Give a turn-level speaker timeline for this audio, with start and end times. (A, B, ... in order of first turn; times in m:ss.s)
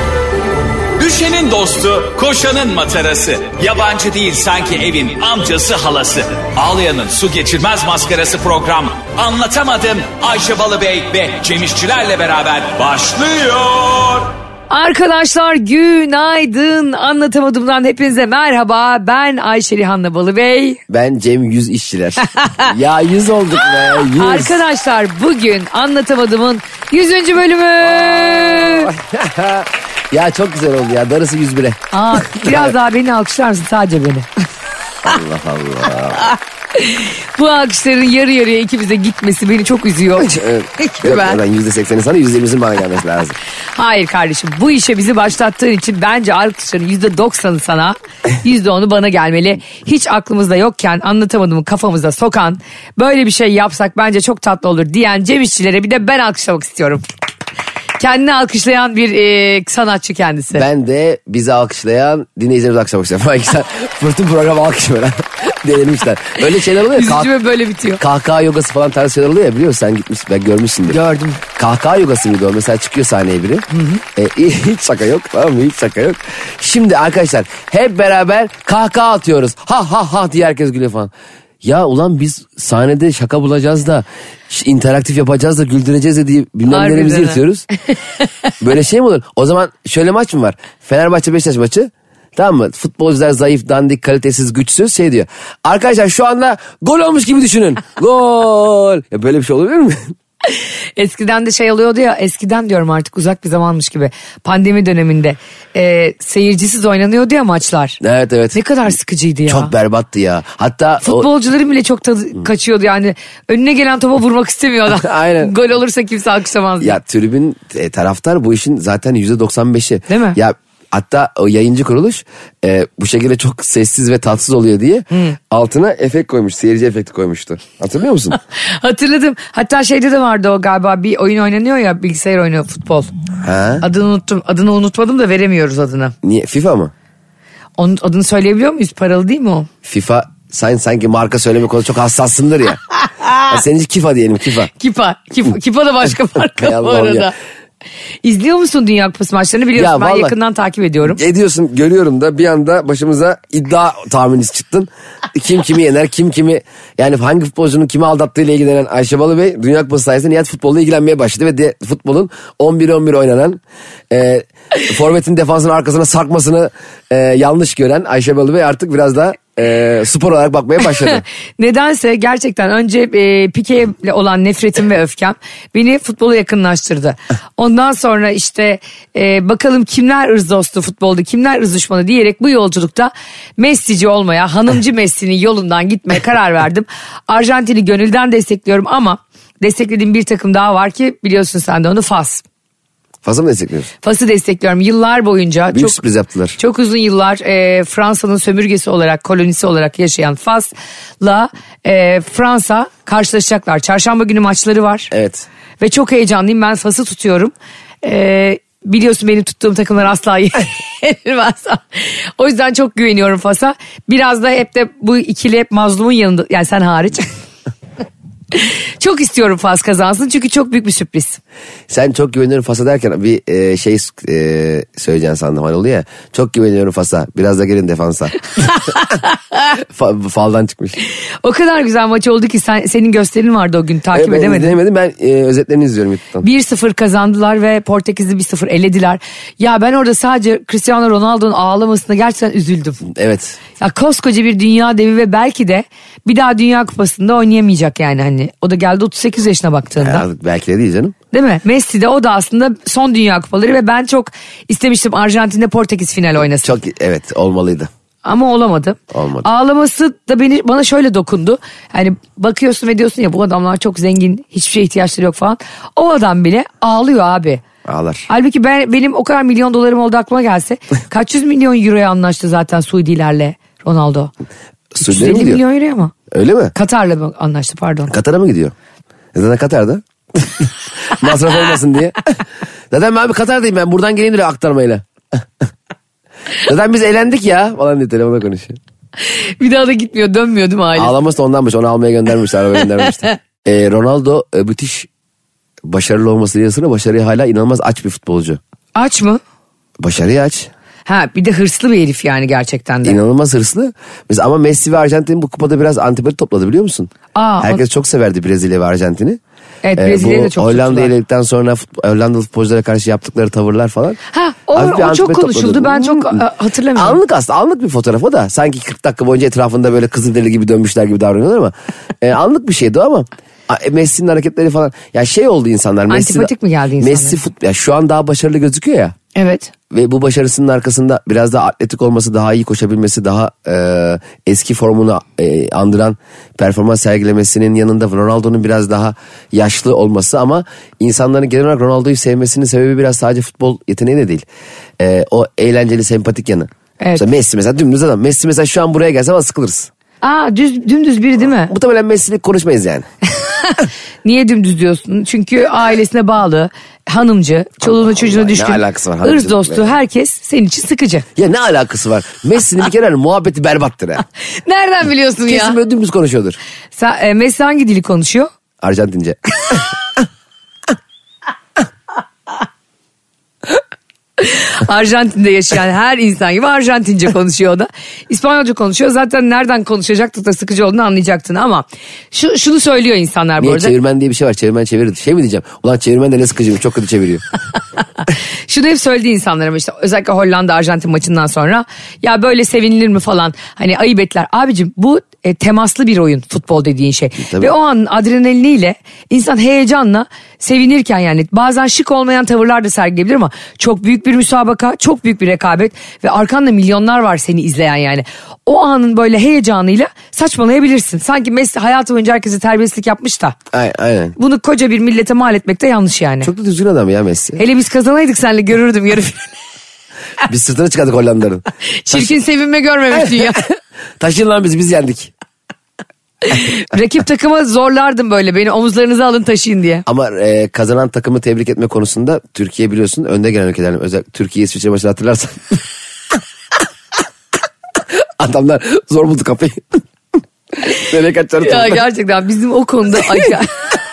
0:01.0-0:14.3 A
0:14.7-0:20.8 B
0:20.9-0:24.6 C
0:22.3-0:22.7 B
0:24.1-0:28.9 B
0:27.8-0:32.7 C
0:31.9-0:34.3 B
0:35.0-0:36.3 C
0:36.3-0:41.4 B
0:40.2-0:43.4 C
0:43.7-0:57.0 B
0:58.0-1:00.6 B
1:00.5-1:07.3 C
1:06.8-1:08.0 B
1:08.0-1:11.0 C
1:10.9-1:11.4 B
1:11.6-1:21.1 C
1:13.7-1:14.0 B
1:21.6-1:27.7 C
1:26.7-1:27.4 B
1:28.6-1:40.1 C
1:40.5-1:48.0 B
1:48.0-1:48.6 C
1:48.5-1:49.7 B
1:49.5-1:51.3 C
1:51.0-1:57.0 B
1:54.9-1:55.5 C
1:56.8-2:08.4 C
2:00.1-2:00.4 B
2:08.5-2:13.1 B
2:13.4-2:13.8 C
2:13.8-2:16.1 B
2:16.2-2:16.9 C
2:17.8-2:19.7 B
2:19.8-2:22.8 C
2:23.4-2:24.7 C
2:24.8-2:27.3 B
2:26.4-2:27.3 C
2:28.2-2:31.2 B
2:29.7-2:30.3 C
2:31.0-2:51.2 C
2:51.1-3:12.4 B
3:13.2-3:13.9 C
3:14.0-3:16.0 B
3:15.7-3:16.6 C
3:16.6-3:25.1 B
3:25.1-3:25.4 C
3:25.8-3:37.3 B
3:38.5-3:41.4 B
3:41.9-3:48.4 C
3:48.7-3:49.3 B
3:49.8-3:51.0 C
3:51.4-3:54.8 B
3:54.1-3:56.4 C
3:56.4-4:03.0 B
4:03.0-4:03.6 C
4:03.8-4:10.2 B
4:10.0-4:11.1 C
4:11.3-4:16.7 B
4:16.6-4:17.9 C
4:18.2-4:27.6 B
4:19.1-4:19.5 C
4:27.8-4:28.3 C
4:28.3-4:34.3 B
4:34.9-4:35.6 C
4:35.0-4:36.1 B
4:36.3-4:36.7 C
4:36.7-4:38.1 B
4:38.1-4:38.7 C
4:39.3-4:45.4 C
4:46.6-4:48.8 C
4:49.2-4:51.1 B
4:50.9-4:55.1 C
4:55.8-4:58.6 C
4:58.9-4:59.4 B
5:00.0-5:00.7 C
5:01.0-5:03.2 B
5:03.0-5:09.4 C
5:07.3-5:07.8 B
5:09.8-5:11.1 B
5:10.0-5:14.2 C
5:14.3-5:17.2 B
5:14.7-5:16.4 C
5:17.0-5:29.1 C
5:26.1-5:27.4 B
5:29.3-5:29.7 B
5:29.9-5:44.4 C
5:45.0-5:49.9 C
5:47.0-5:47.2 B
5:50.2-5:51.7 B
5:51.7-5:53.0 C
5:53.4-6:01.2 B
5:57.8-5:59.9 C
6:01.4-6:04.2 C
6:04.6-6:05.8 B
6:05.5-6:06.6 C
6:06.9-6:08.5 B
6:08.8-6:09.8 C
6:14.4-6:24.0 B
6:23.6-6:27.4 C
6:28.7-6:53.6 B
6:37.4-6:37.7 C
6:53.7-6:54.4 C
6:54.4-6:56.5 B
6:56.4-6:57.6 C
6:57.6-6:59.5 B
7:00.4-7:02.3 C
7:02.0-7:03.6 B
7:03.1-7:03.5 C
7:04.2-7:05.3 C
7:06.4-7:10.0 B
7:10.1-7:15.8 C
7:18.1-7:20.0 C
7:20.8-7:22.0 C
7:21.6-7:23.8 B